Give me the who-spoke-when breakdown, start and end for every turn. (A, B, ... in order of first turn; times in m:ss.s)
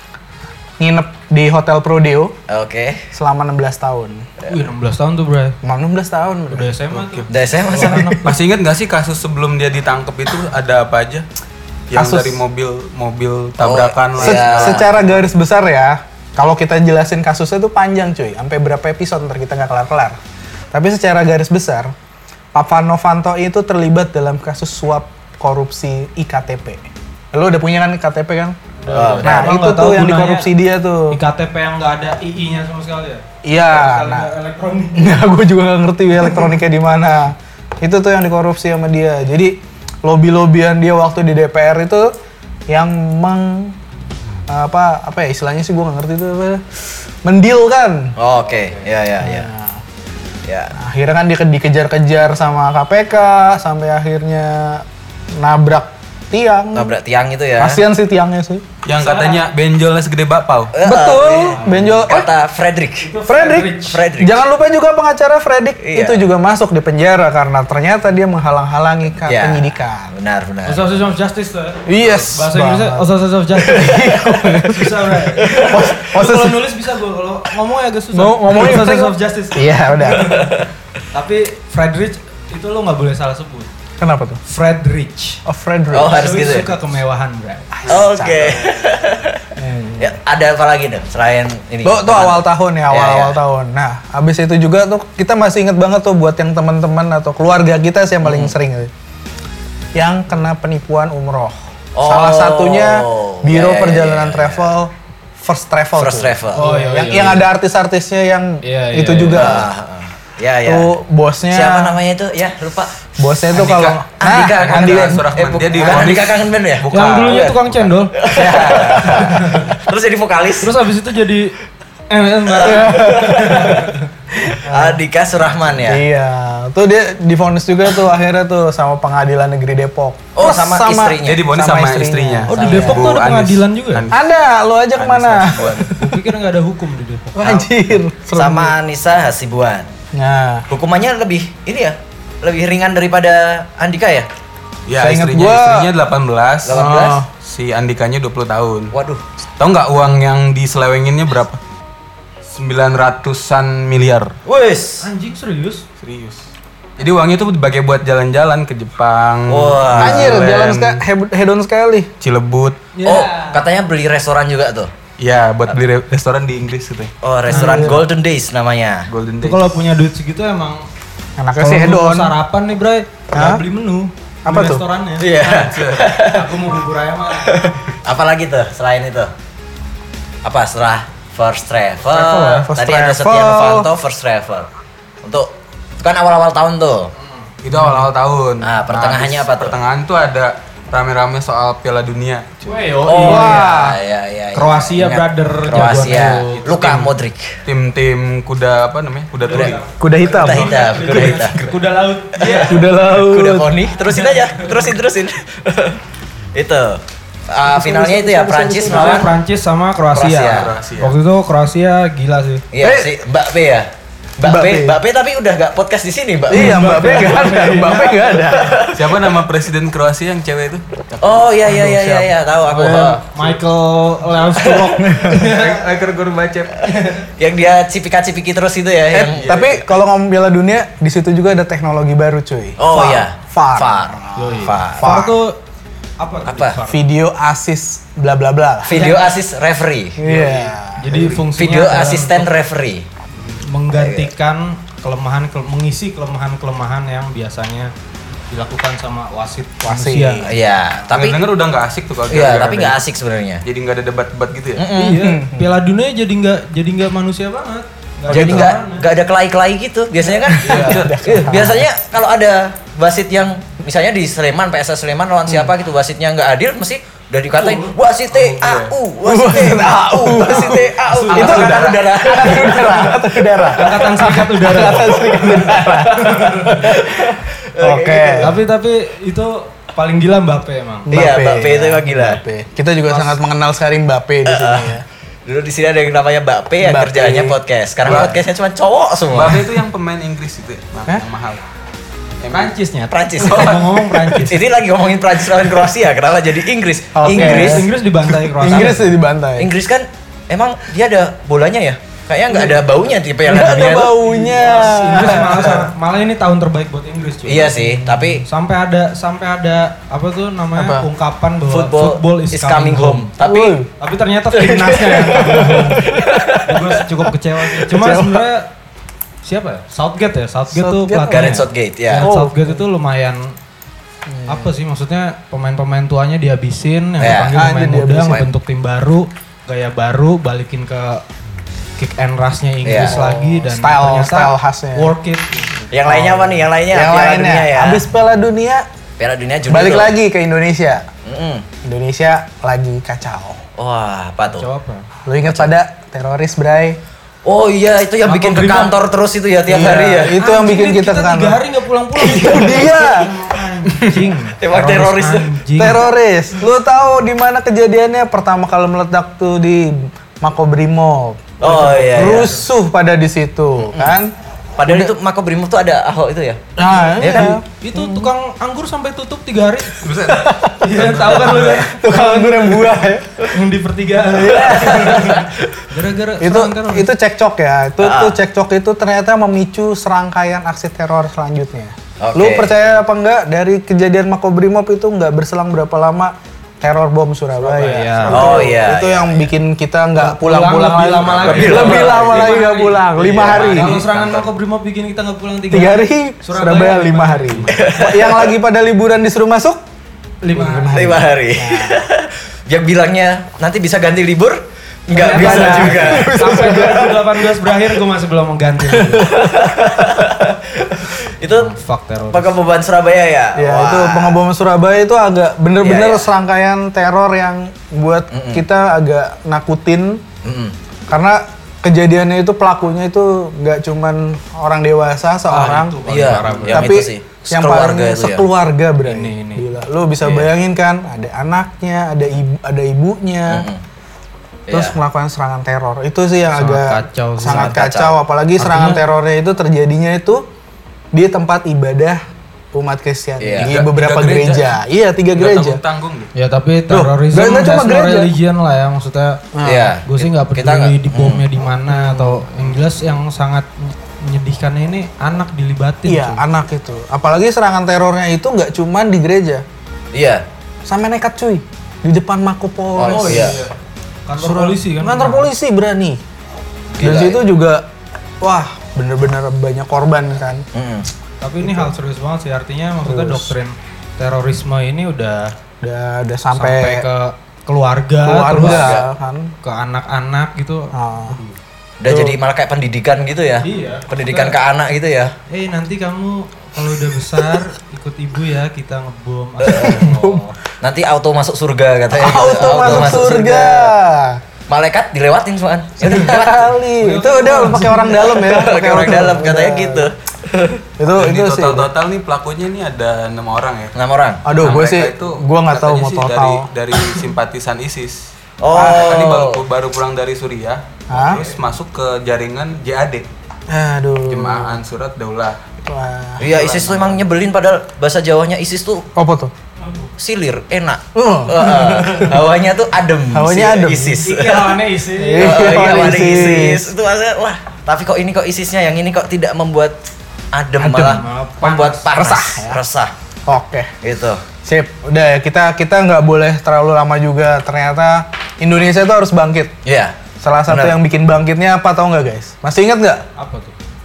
0:00.8-0:02.4 A
0:02.5-0:03.0 B
0:03.1-0:04.3 A
0:04.4-0:05.6 C
0:05.6-0:06.8 A
0:06.5-0:08.2 C
0:06.9-0:07.3 D
0:07.3-0:08.1 B
0:07.7-0:08.4 A
0:08.2-0:11.2 D
0:11.9-0:15.2 D
0:11.9-0:12.4 A
0:13.6-0:14.9 B
0:14.2-0:20.2 A
0:20.7-0:21.9 A
0:22.5-0:28.6 A
0:28.8-0:30.5 C
0:28.9-0:29.5 B
0:29.2-0:31.2 A
0:31.1-0:35.1 C
0:33.4-0:34.3 A
0:35.0-0:42.1 A
0:42.7-0:43.8 A
0:44.5-0:48.2 A
0:48.2-0:49.5 B
0:49.2-0:49.8 A
0:50.4-0:50.7 B
0:50.7-0:56.9 A
0:56.7-0:57.8 B
0:57.6-0:58.6 A
0:58.8-1:00.7 D
0:58.9-0:59.5 C
1:00.7-1:03.1 B
1:00.8-1:02.3 A
1:01.4-1:02.1 C
1:03.0-1:04.0 C
1:03.2-1:10.1 A
1:03.9-1:04.4 B
1:05.8-1:06.2 B
1:09.3-1:11.0 B
1:10.6-1:20.5 C
1:11.8-1:13.1 A
1:13.6-1:16.7 A
1:13.9-1:14.8 B
1:15.5-1:15.9 B
1:18.1-1:20.4 A
1:20.2-1:20.7 B
1:21.1-1:23.7 C
1:24.0-1:24.4 A
1:24.4-1:25.4 C
1:25.4-1:26.3 A
1:25.9-1:26.7 B
1:26.0-1:27.7 C
1:27.8-1:28.7 A
1:27.9-1:33.4 B
1:29.6-1:30.2 A
1:31.8-1:38.9 A
1:38.2-1:38.5 B
1:39.9-1:49.7 A
1:42.0-1:44.7 B
1:46.0-1:46.6 B
1:46.6-1:47.5 C
1:48.6-1:49.6 C
1:49.3-1:50.9 B
1:50.6-1:52.0 A
1:51.5-1:53.0 B
1:53.2-1:56.2 A
1:53.5-1:57.5 D
1:54.2-1:57.6 B
1:56.9-1:58.2 C
1:58.1-2:00.8 B
1:58.3-1:59.0 D
1:59.0-1:59.7 C
2:00.6-2:01.5 C
2:02.1-2:04.1 C
2:02.5-2:03.8 B
2:02.6-2:03.6 A
2:04.4-2:05.0 A
2:04.5-2:06.0 B
2:05.8-2:13.1 A
2:10.3-2:11.5 B
2:11.2-2:14.2 D
2:12.5-2:14.0 C
2:12.6-2:12.9 B
2:14.1-2:16.2 A
2:14.9-2:15.9 D
2:15.9-2:17.5 C
2:17.3-2:18.7 A
2:18.3-2:19.9 B
2:20.1-2:20.6 A
2:20.7-2:24.3 B
2:24.9-2:28.9 D
2:25.0-2:25.9 A
2:26.6-2:27.2 B
2:26.7-2:27.3 A
2:28.9-2:29.2 B
2:29.6-2:31.6 D
2:32.5-2:34.4 D
2:34.4-2:35.1 B
2:35.0-2:35.8 C
2:36.0-2:36.4 D
2:37.0-2:41.0 D
2:39.5-2:40.4 B
2:40.0-2:42.1 A
2:42.2-2:42.8 D
2:42.9-2:43.6 C
2:43.0-2:44.9 B
2:45.2-2:47.1 D
2:47.2-2:49.1 B
2:47.5-2:48.0 C
2:47.5-2:48.1 A
2:49.1-2:49.6 D
2:49.4-2:50.8 C
2:51.4-2:52.3 A
2:51.6-2:55.3 C
2:53.3-2:53.6 A
2:54.4-2:54.8 A
2:55.2-2:56.5 B
2:55.4-2:56.1 D
2:56.2-2:57.7 C
2:57.4-2:59.3 B
3:00.4-3:04.7 B
3:02.1-3:03.9 A
3:05.2-3:07.1 B
3:07.6-3:12.8 D
3:07.7-3:08.0 A
3:08.6-3:09.8 B
3:12.6-3:13.7 C
3:13.0-3:17.6 B
3:13.2-3:14.0 A
3:14.5-3:16.6 C
3:15.9-3:17.1 D
3:17.6-3:21.8 D
3:19.4-3:23.0 C
3:19.5-3:21.6 B
3:20.0-3:21.3 A
3:22.4-3:26.0 B
3:22.6-3:23.8 A
3:24.0-3:24.9 C
3:26.5-3:29.3 B
3:27.6-3:29.3 A
3:28.8-3:32.6 C
3:30.1-3:30.7 B
3:30.4-3:31.2 D
3:32.7-3:33.9 B
3:32.8-3:33.2 A
3:34.4-3:36.8 B
3:34.4-3:35.0 A
3:36.5-3:38.8 A
3:36.5-3:38.7 C
3:38.5-3:39.1 B
3:38.9-3:40.8 D
3:41.2-3:43.2 B
3:41.6-3:43.2 A
3:42.8-3:45.8 C
3:45.0-3:45.5 A
3:45.4-3:47.0 D
3:46.8-3:47.2 C
3:47.4-3:49.8 B
3:49.1-3:55.4 A
3:49.3-3:49.7 D
3:52.8-3:55.1 B
3:54.3-3:55.6 C
3:56.2-3:57.1 C
3:56.4-3:56.8 B
3:56.9-3:59.0 A
3:58.8-4:00.2 B
3:58.9-3:59.3 C
4:00.2-4:01.3 A
4:00.2-4:02.5 C
4:01.1-4:01.5 D
4:01.5-4:03.1 B
4:03.6-4:07.9 C
4:03.9-4:04.3 B
4:08.5-4:10.4 C
4:09.8-4:10.6 A
4:10.4-4:11.4 B
4:11.1-4:13.0 D
4:12.3-4:13.6 B
4:13.6-4:14.8 D
4:14.7-4:15.3 B
4:14.9-4:19.1 C
4:15.2-4:15.8 A
4:18.3-4:18.7 D
4:18.3-4:33.1 B
4:20.4-4:21.8 A
4:20.6-4:21.1 D
4:27.5-4:27.9 C
4:28.3-4:28.9 D
4:29.2-4:37.1 A
4:30.4-4:32.0 D
4:31.0-4:31.9 C
4:33.7-4:36.9 C
4:35.4-4:38.6 B
4:37.8-4:38.6 A
4:38.4-4:41.2 C
4:41.1-4:45.0 A
4:41.1-4:42.4 B
4:43.1-4:43.4 C
4:44.4-4:49.6 B
4:46.8-4:48.3 A
4:48.0-4:48.3 D
4:49.3-4:51.6 D
4:52.4-4:52.7 D
4:52.5-4:54.6 C
4:53.1-4:53.8 B
4:53.4-4:54.3 D
4:54.4-4:57.9 B
4:57.1-4:57.9 A
4:57.2-4:59.1 C
4:58.5-4:59.7 A
4:58.7-4:59.0 B
4:59.6-5:04.2 B
5:02.5-5:02.8 A
5:03.4-5:05.8 A
5:04.2-5:13.3 C
5:07.4-5:08.4 B
5:10.8-5:11.0 A
5:11.7-5:13.8 B
5:13.4-5:13.9 A
5:14.0-5:16.1 C
5:14.5-5:15.6 B
5:15.4-5:16.2 A
5:16.1-5:16.9 B
5:16.6-5:18.7 C
5:17.8-5:18.5 A
5:19.4-5:23.5 C
5:20.7-5:21.6 A
5:21.3-5:22.3 B
5:22.2-5:22.8 A
5:24.3-5:24.7 A
5:24.4-5:31.2 C
5:27.2-5:27.6 B
5:27.5-5:28.4 A
5:32.0-5:35.9 C
5:32.8-5:33.2 B
5:32.9-5:35.1 A
5:35.9-5:38.0 B
5:36.0-5:38.8 A
5:39.2-5:40.1 B
5:39.7-5:41.1 A
5:41.2-5:41.6 B
5:41.8-5:43.6 A
5:43.8-5:44.6 B
5:44.5-5:45.1 C
5:45.2-5:47.0 A
5:47.4-5:50.4 B
5:48.2-5:48.9 C
5:49.7-5:51.6 A
5:50.4-5:56.0 C
5:52.1-5:53.3 A
5:54.6-5:55.5 B
5:55.8-6:04.3 A
6:01.6-6:02.6 B
6:01.7-6:02.6 C
6:03.9-6:04.2 B
6:04.8-6:06.6 B
6:04.8-6:05.1 A
6:06.8-6:08.3 A
6:07.0-6:10.0 C
6:07.2-6:07.6 B
6:10.0-6:11.4 D
6:10.2-6:13.5 A
6:10.8-6:12.9 C
6:11.5-6:11.8 B
6:13.5-6:17.1 C
6:14.3-6:15.3 A
6:14.5-6:15.4 B
6:16.4-6:34.0 A
6:18.0-6:18.4 B
6:22.2-6:22.9 B
6:27.6-6:28.7 C
6:28.3-6:29.5 B
6:30.2-6:37.9 C
6:31.2-6:32.2 D
6:31.4-6:32.6 B
6:33.2-6:34.5 B
6:35.7-6:39.8 A
6:37.7-6:38.5 B
6:40.4-6:41.0 C
6:40.5-6:42.1 A
6:40.9-6:46.8 B
6:45.1-6:49.3 C
6:45.2-6:47.3 A
6:49.2-6:51.7 B
6:49.2-6:49.7 A
6:51.4-6:52.6 C
6:52.3-6:54.4 B
6:53.5-7:00.2 A
6:55.8-6:56.3 B
6:58.3-6:58.6 B
7:00.4-7:00.7 B
7:01.1-7:06.0 A
7:05.5-7:07.0 C
7:06.1-7:08.4 B
7:06.7-7:13.7 A
7:09.0-7:09.6 C
7:10.2-7:10.5 B
7:13.5-7:13.8 B
7:14.7-7:15.0 B
7:14.7-7:20.4 A
7:16.5-7:17.8 C
7:17.5-7:18.2 B
7:18.6-7:19.0 C
7:21.1-7:22.2 A
7:22.7-7:25.8 A
7:23.4-7:23.8 B
7:23.6-7:24.8 D
7:25.3-7:26.3 D
7:26.3-7:29.4 C
7:26.9-7:28.3 A
7:29.5-7:30.0 A
7:29.6-7:31.4 B
7:30.0-7:36.4 C
7:31.9-7:32.4 A
7:36.0-7:39.6 A
7:40.1-7:40.4 B
7:40.8-7:43.6 A
7:43.0-7:43.6 B
7:43.0-7:43.7 C
7:44.3-7:45.5 C
7:44.4-7:46.2 A
7:47.0-7:47.4 B
7:47.0-7:47.8 A
7:48.4-7:50.6 A
7:50.7-7:51.1 B
7:51.4-7:55.5 C
7:51.6-7:51.9 A
7:53.0-7:53.5 A
7:55.8-7:57.0 A
7:56.5-7:58.9 C
7:58.2-7:59.5 A
7:58.6-7:59.0 B
7:59.6-8:01.6 C
8:00.9-8:01.4 A
8:02.0-8:05.3 B
8:02.0-8:02.4 A
8:03.6-8:04.6 C
8:05.5-8:10.6 C
8:09.6-8:10.4 A
8:09.6-8:10.0 B
8:10.8-8:13.9 B
8:12.1-8:14.4 A
8:14.7-8:16.7 B
8:16.0-8:20.1 A
8:17.0-8:18.5 C
8:17.7-8:20.8 B
8:21.0-8:21.9 A
8:21.2-8:23.9 D
8:23.9-8:24.7 B
8:24.4-8:26.7 A
8:24.5-8:33.3 D
8:28.6-8:29.6 B
8:28.7-8:29.1 A
8:31.1-8:31.4 A
8:31.2-8:31.5 C
8:33.7-8:34.8 A
8:34.2-8:35.6 D
8:35.8-8:36.5 A
8:36.4-8:39.1 B
8:39.1-8:39.5 A
8:40.2-8:44.8 B
8:41.1-8:42.4 A
8:43.3-8:44.3 A
8:44.2-8:46.1 C
8:45.2-8:46.9 A
8:45.4-8:50.0 B
8:50.5-8:53.1 B
8:50.8-8:51.2 A
8:50.9-8:52.2 C
8:52.2-8:52.8 A
8:53.5-8:53.9 A
8:54.0-8:54.4 B
8:54.6-8:59.7 A
8:59.8-9:01.0 B
9:00.4-9:03.2 A
9:03.4-9:03.7 C